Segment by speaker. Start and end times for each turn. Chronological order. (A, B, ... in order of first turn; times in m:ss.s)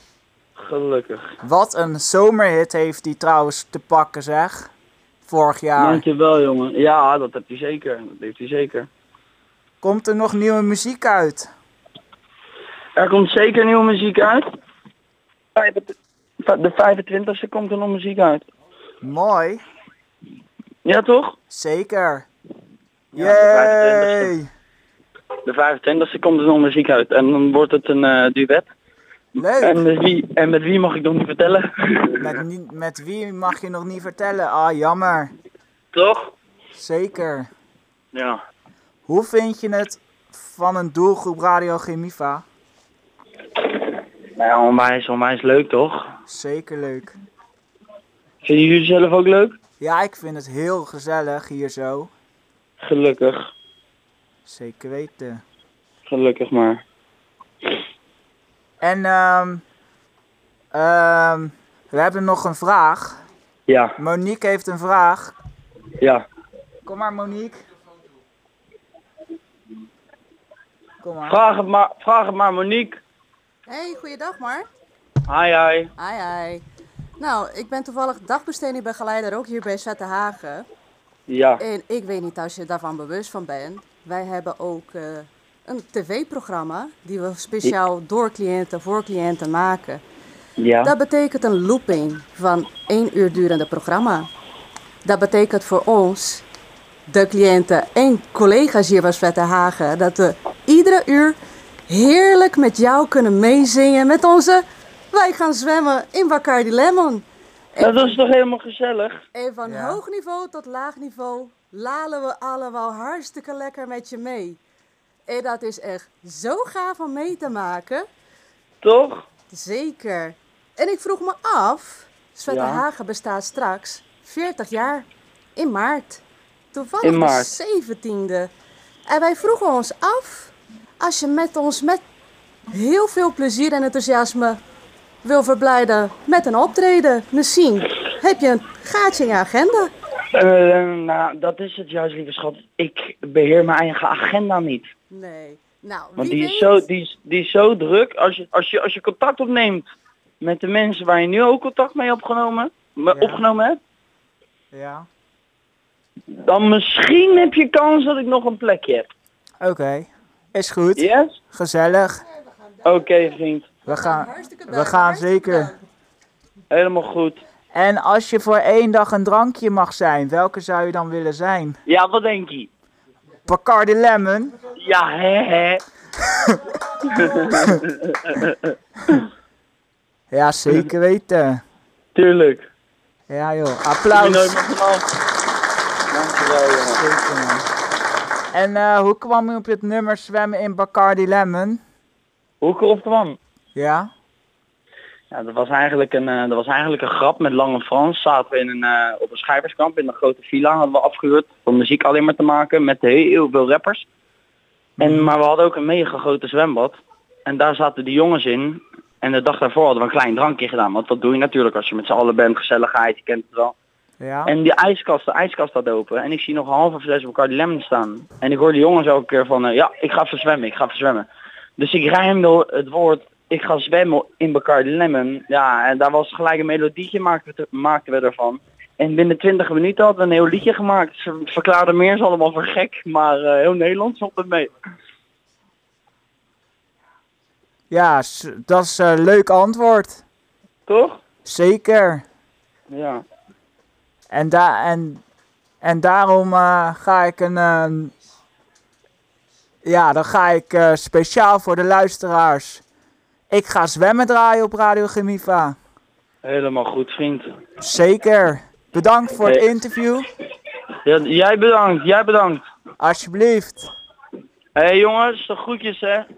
0:00.6-0:01.4 A
0:01.4-0:04.7 B
0:05.3-0:06.0 B
0:05.8-0:08.9 A
0:09.8-0:11.5 B
0:13.0-0:14.5 A
0:15.6-0:18.5 A
0:19.0-0:19.6 B
0:20.8-0:21.4 A
0:21.5-0:22.3 B
0:23.1-0:24.3 A
0:23.2-0:24.5 B
0:25.4-0:28.7 A
0:29.4-0:29.8 B
0:29.6-0:32.4 A
0:32.2-0:35.3 B
0:35.9-0:36.3 A
0:36.8-0:37.5 B
0:38.1-0:38.4 A
0:39.1-0:42.4 B
0:44.4-0:46.1 A
0:46.3-0:47.2 B
0:48.4-0:49.6 A
0:49.8-0:52.1 B
0:52.8-0:53.5 A
0:54.4-0:55.4 B
0:56.1-0:56.8 A
0:58.8-0:59.6 B
1:00.7-1:03.2 B
1:03.7-1:04.0 A
1:04.0-1:05.3 B
1:06.8-1:07.6 B
1:11.0-1:11.4 B
1:11.2-1:13.0 A
1:13.7-1:14.7 C
1:15.3-1:15.9 A
1:16.0-1:16.6 C
1:17.2-1:20.7 C
1:21.3-1:21.6 A
1:21.6-1:30.0 C
1:30.6-1:30.9 A
1:30.8-1:34.3 C
1:35.0-1:36.4 C
1:37.1-1:48.2 C
1:47.8-1:49.2 A
1:49.4-1:54.6 C
1:49.6-1:50.0 B
1:55.3-1:58.1 C
1:58.8-1:59.3 A
1:59.5-2:08.5 C
2:02.5-2:02.8 A
2:07.0-2:07.5 A
2:09.1-2:12.0 C
2:12.7-2:14.6 C
2:15.2-2:19.9 C
2:20.3-2:24.9 A
2:25.1-2:26.8 C
2:26.2-2:29.9 A
2:30.4-2:33.8 A
2:33.1-2:33.4 B
2:34.7-2:35.1 B
2:36.3-2:39.1 A
2:39.6-2:42.2 B
2:41.0-2:41.4 A
2:42.8-2:43.7 A
2:43.9-2:45.7 B
2:43.9-2:45.8 C
2:46.7-2:47.4 A
2:47.7-2:51.8 B
2:51.9-2:52.7 A
2:53.5-2:54.6 B
2:54.7-2:55.8 A
2:57.0-2:59.3 A
2:57.5-2:57.7 B
3:00.3-3:01.6 B
3:02.2-3:02.7 A
3:03.3-3:04.6 B
3:04.1-3:05.0 A
3:06.1-3:07.0 A
3:07.0-3:07.6 B
3:08.5-3:11.8 B
3:12.6-3:13.4 A
3:13.8-3:14.1 B
3:15.3-3:24.1 A
3:25.0-3:25.3 B
3:25.0-3:33.8 A
3:34.2-3:34.5 B
3:34.5-3:41.3 A
3:41.8-3:54.7 A
3:57.9-4:00.2 B
4:00.9-4:01.2 A
4:01.4-4:02.2 B
4:02.9-4:03.2 A
4:04.3-4:05.2 B
4:05.8-4:08.1 B
4:09.8-4:12.8 B
4:13.5-4:15.8 B
4:16.4-4:17.5 A
4:17.8-4:20.3 B
4:21.0-4:22.6 A
4:23.0-4:23.9 B
4:24.8-4:26.3 A